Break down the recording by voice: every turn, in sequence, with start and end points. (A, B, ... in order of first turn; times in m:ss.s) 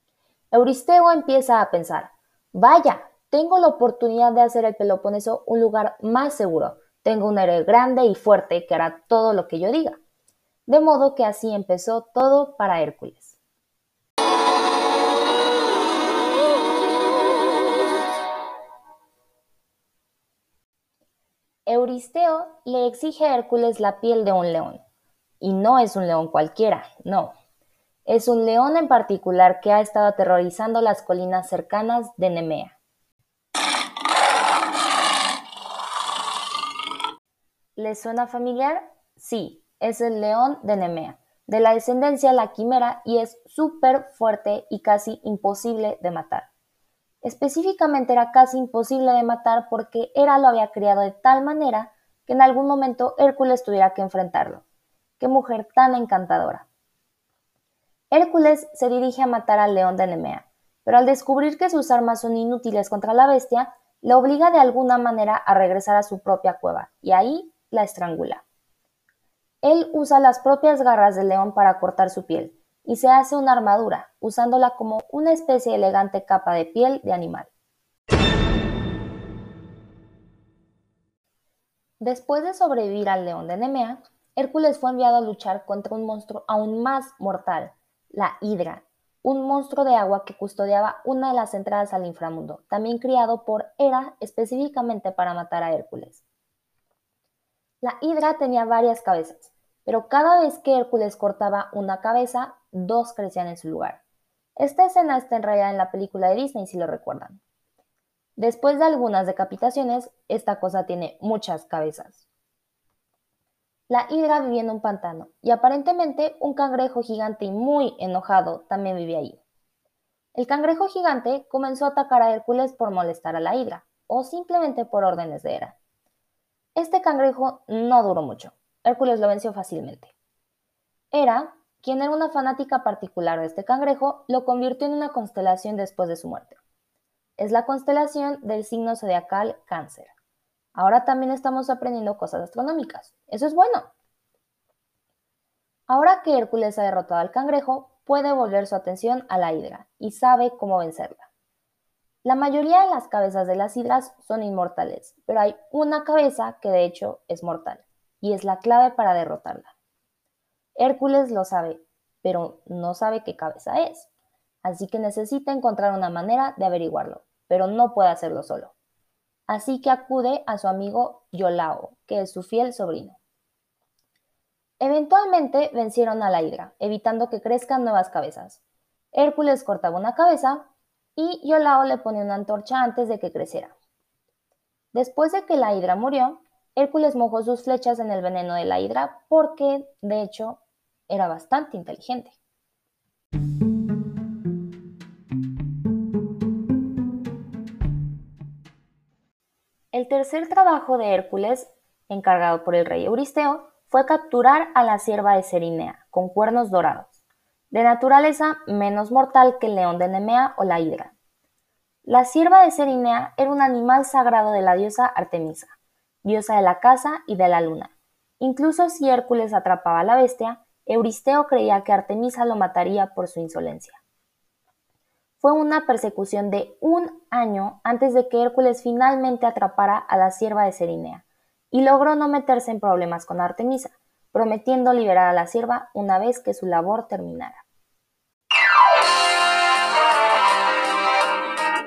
0:00.5-0:10.0 A
0:10.7-0:13.4 A
0:21.7-0:24.8 A
0:25.4-0:27.3 A
0:28.1-0:32.8 A
0:37.8-0:46.5 A
0:47.2-0:54.6 A
0:55.2-0:56.7 A
0:58.1-1:08.4 A
1:09.6-1:17.5 A
1:22.0-1:36.2 A
1:37.8-1:44.0 A
1:44.6-1:47.4 A
1:48.4-1:52.3 A
1:53.9-1:59.4 A
2:00.3-2:05.8 A
2:06.8-2:10.1 A
2:11.1-2:16.6 A
2:17.4-2:20.1 A
2:20.7-2:23.9 A
2:25.9-2:31.3 A
2:32.2-2:39.7 A
2:40.8-2:44.1 A
2:44.6-2:48.7 A
2:49.5-2:53.2 A
2:54.8-2:58.6 A
2:59.1-3:03.7 A
3:04.9-3:12.4 A
3:19.9-3:27.1 A
3:27.7-3:31.2 A
3:32.0-3:44.0 A
3:45.4-3:57.6 A